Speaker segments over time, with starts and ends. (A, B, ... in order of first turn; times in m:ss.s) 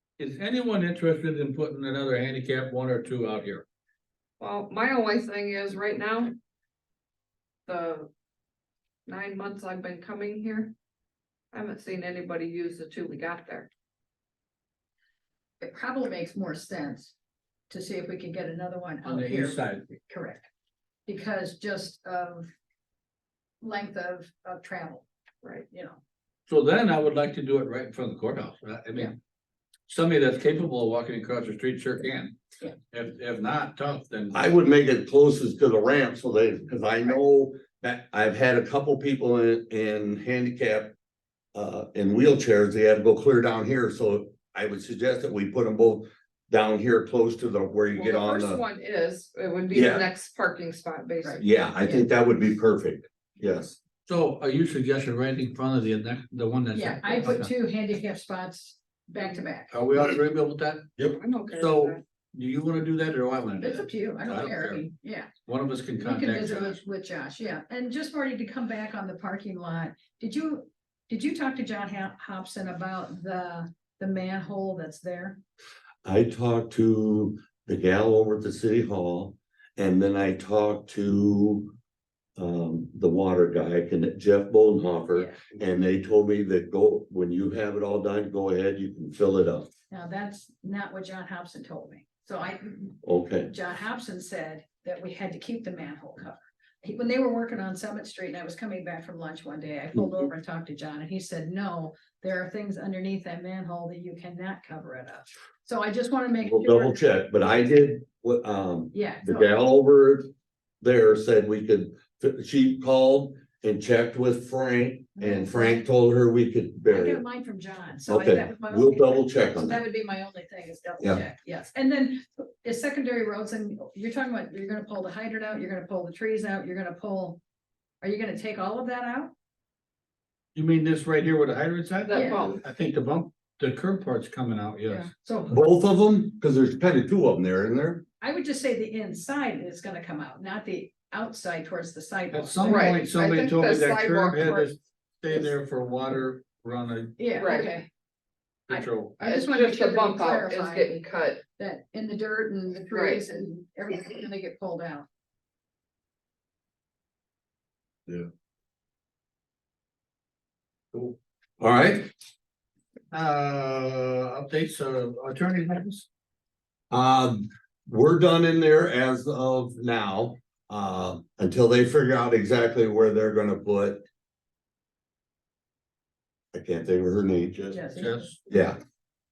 0:00.2-0:03.6 A
0:04.4-0:06.4 B
0:07.7-0:08.1 B
0:09.1-0:10.7 B
0:11.5-0:13.7 B
0:15.6-0:17.2 C
0:17.7-0:20.5 C
0:19.0-0:19.9 A
0:21.1-0:22.5 C
0:23.6-0:25.1 C
0:25.7-0:26.0 C
0:26.5-0:29.2 A
0:29.9-0:32.4 A
0:32.9-0:34.4 A
0:34.3-0:41.0 D
0:41.5-0:48.6 D
0:48.0-0:51.5 B
0:49.7-0:50.1 D
0:51.2-0:52.0 C
0:51.4-0:53.8 D
0:54.1-0:57.5 A
0:56.7-0:59.7 C
0:59.7-1:01.0 A
1:01.1-1:02.0 B
1:01.5-1:04.8 A
1:03.6-1:05.3 C
1:05.5-1:06.8 A
1:06.0-1:15.4 C
1:16.0-1:21.7 D
1:22.4-1:29.7 D
1:25.1-1:25.4 C
1:29.9-1:47.0 C
1:33.0-1:33.5 D
1:46.4-1:50.3 D
1:48.9-1:49.5 C
1:50.8-1:57.2 D
1:55.2-1:55.9 C
1:56.9-2:07.4 C
1:58.1-1:59.8 D
2:08.0-2:09.3 C
2:10.6-2:15.1 A
2:12.1-2:12.6 B
2:12.1-2:12.5 C
2:15.2-2:15.5 C
2:15.5-2:18.0 D
2:18.2-2:23.0 C
2:22.3-2:27.5 A
2:22.7-2:24.7 B
2:27.2-2:27.9 C
2:27.4-2:27.7 B
2:28.7-2:29.2 A
2:28.7-2:31.0 C
2:29.2-2:31.4 B
2:31.6-2:35.1 C
2:32.9-2:33.3 B
2:41.6-2:42.1 D
2:43.1-2:46.1 A
2:46.9-2:54.0 D
2:56.5-2:57.8 D
2:57.7-2:58.3 C
2:58.0-2:58.4 A
2:58.5-2:58.8 D